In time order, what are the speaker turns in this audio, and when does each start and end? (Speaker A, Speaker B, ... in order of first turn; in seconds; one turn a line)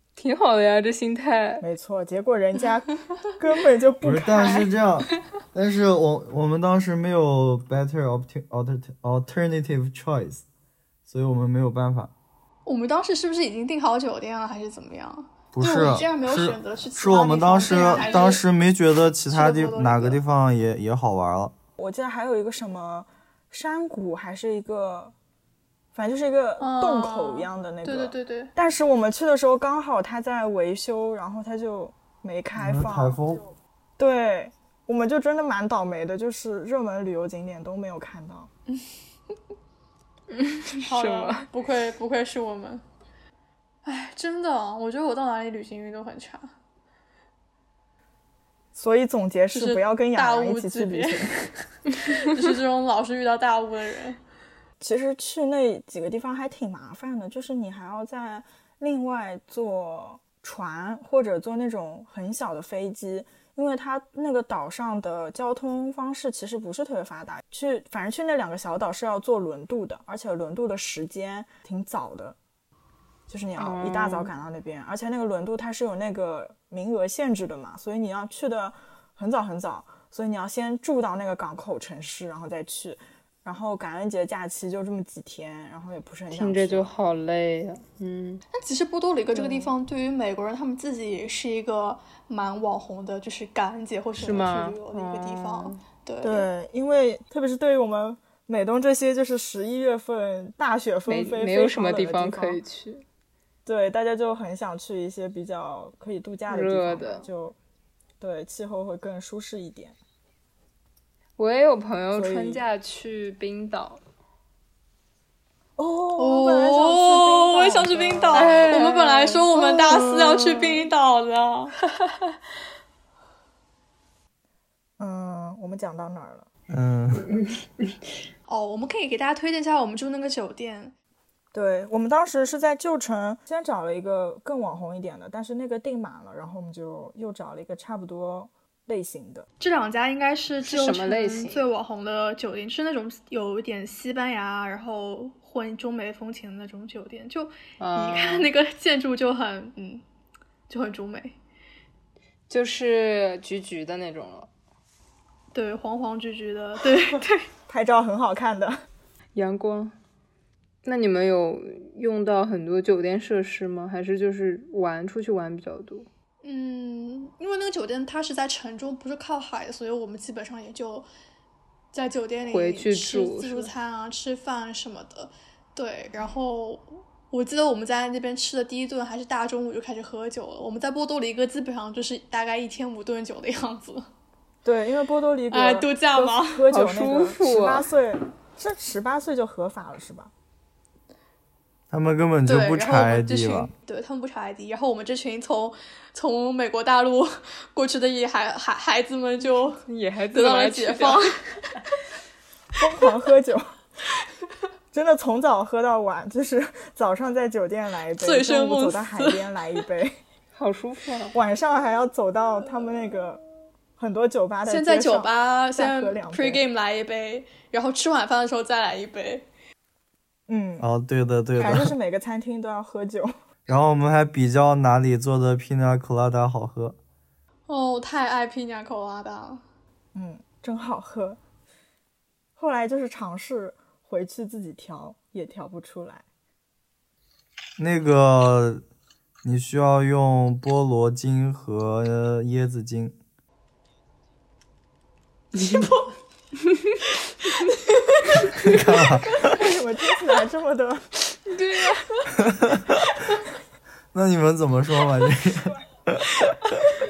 Speaker A: 0.1-1.6
Speaker B: 1.6-4.7
Speaker C: 4.0-10.4
Speaker C: 11.1-12.1
Speaker D: 12.7-18.4
Speaker C: 15.5-21.5
Speaker B: 17.9-18.2
Speaker D: 19.3-20.2
Speaker B: 21.8-25.1
Speaker B: 25.9-33.2
Speaker D: 26.6-28.5
Speaker C: 32.5-33.5
Speaker B: 34.0-38.5
Speaker A: 40.3-41.5
Speaker D: 40.8-42.8
Speaker D: 43.9-46.5
Speaker B: 48.8-51.4
Speaker D: 49.5-54.2
Speaker B: 54.8-72.4
Speaker B: 73.3-86.9
Speaker A: 73.6-74.3
Speaker A: 86.3-88.4
Speaker D: 88.5-96.5
Speaker B: 89.3-89.7
Speaker A: 94.2-95.8
Speaker B: 96.2-102.6
Speaker A: 101.1-103.0
Speaker B: 103.7-107.5
Speaker A: 106.5-107.2
Speaker B: 108.2-110.0
Speaker A: 111.4-114.0
Speaker B: 112.1-112.6
Speaker B: 115.8-118.7
Speaker D: 116.2-121.8
Speaker A: 118.3-119.5
Speaker B: 119.5-120.8
Speaker B: 125.0-126.5
Speaker C: 126.7-127.3
Speaker A: 127.3-127.9
Speaker D: 128.5-130.9
Speaker B: 131.5-139.5
Speaker D: 139.6-150.0
Speaker A: 140.6-141.6
Speaker A: 147.8-148.5
Speaker D: 150.7-151.4
Speaker A: 152.5-154.5
Speaker D: 155.5-157.5
Speaker B: 157.7-158.8
Speaker A: 159.3-159.9
Speaker A: 160.8-166.1
Speaker D: 166.4-171.1
Speaker D: 171.9-184.1
Speaker A: 172.5-173.7
Speaker B: 184.6-190.3
Speaker D: 185.5-186.7
Speaker A: 186.7-187.9
Speaker C: 191.9-193.7
Speaker D: 192.4-199.8
Speaker A: 199.8-201.3
Speaker D: 200.3-201.4
Speaker B: 202.8-203.7
Speaker B: 204.9-210.2
Speaker D: 208.2-209.6
Speaker A: 210.5-211.4
Speaker B: 211.3-213.4
Speaker B: 214.0-216.6
Speaker D: 214.7-219.5
Speaker B: 220.5-220.9
Speaker C: 220.8-221.9
Speaker B: 221.6-223.3
Speaker C: 223.7-227.0
Speaker D: 227.7-229.6
Speaker B: 230.1-231.4
Speaker B: 232.6-236.2
Speaker C: 237.8-238.8
Speaker C: 239.4-243.2
Speaker C: 248.5-249.6
Speaker B: 249.4-251.0
Speaker A: 251.5-252.1
Speaker C: 252.5-252.9
Speaker C: 254.1-256.7